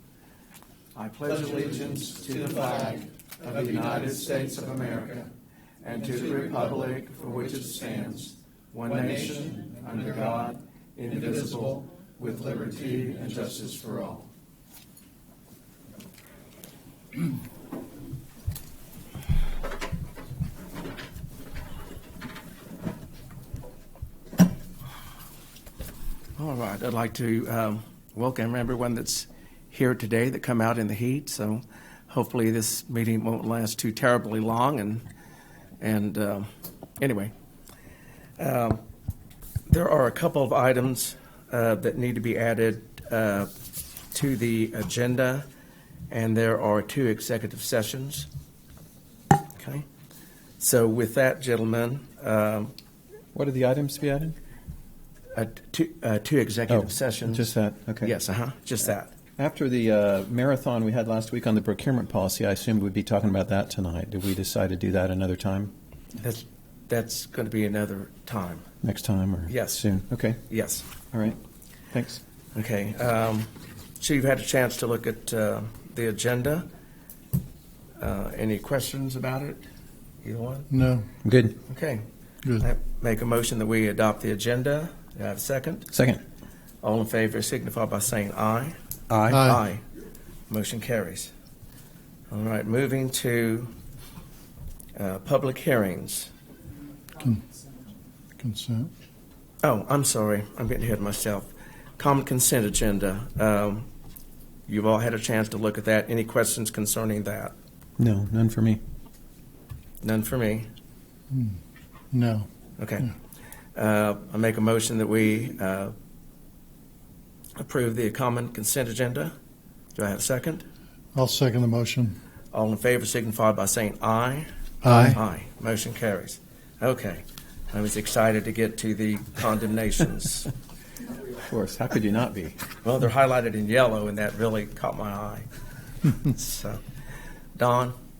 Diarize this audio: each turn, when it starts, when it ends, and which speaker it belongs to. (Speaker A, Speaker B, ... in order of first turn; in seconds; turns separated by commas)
Speaker A: 0.9-5.3, Speaker A: 5.8-14.3, Speaker A: 26.4-35.0, Speaker A: 35.8-36.5, Speaker A: 37.0-37.3, Speaker A: 38.4-38.8, Speaker A: 39.7-43.5, Speaker A: 44.1-45.4, Speaker A: 46.1-48.3, Speaker A: 49.6-49.8, Speaker A: 50.6-52.7, Speaker B: 53.3-54.4, Speaker A: 55.3-59.1, Speaker B: 56.7-58.1, Speaker B: 59.4-65.7, Speaker A: 66.2-68.7, Speaker B: 68.8-70.4, Speaker A: 69.5-69.8, Speaker A: 70.5-70.9, Speaker B: 71.1-71.4, Speaker B: 71.9-72.2, Speaker A: 72.5-76.7, Speaker A: 78.0-79.6, Speaker A: 80.2-80.7, Speaker C: 80.7-81.1, Speaker B: 81.2-81.5, Speaker A: 81.7-82.0, Speaker A: 82.6-85.9, Speaker B: 85.9-86.2, Speaker A: 86.8-88.8, Speaker B: 89.1-89.4, Speaker C: 89.3-89.6, Speaker A: 89.3-89.8, Speaker A: 90.5-91.3, Speaker A: 92.3-93.7, Speaker A: 94.9-96.3, Speaker C: 97.2-97.4, Speaker C: 98.4-98.9, Speaker A: 99.6-103.9, Speaker A: 104.7-107.5, Speaker B: 108.0-108.8, Speaker A: 110.0-110.7, Speaker C: 111.3-111.6, Speaker C: 112.1-112.5, Speaker A: 112.8-113.1, Speaker A: 113.7-115.9, Speaker A: 117.6-119.3, Speaker A: 119.9-120.6, Speaker C: 121.1-122.2, Speaker A: 122.5-130.5, Speaker C: 124.8-125.2, Speaker B: 131.3-132.7, Speaker A: 132.8-135.5, Speaker A: 136.1-136.8, Speaker A: 137.6-137.9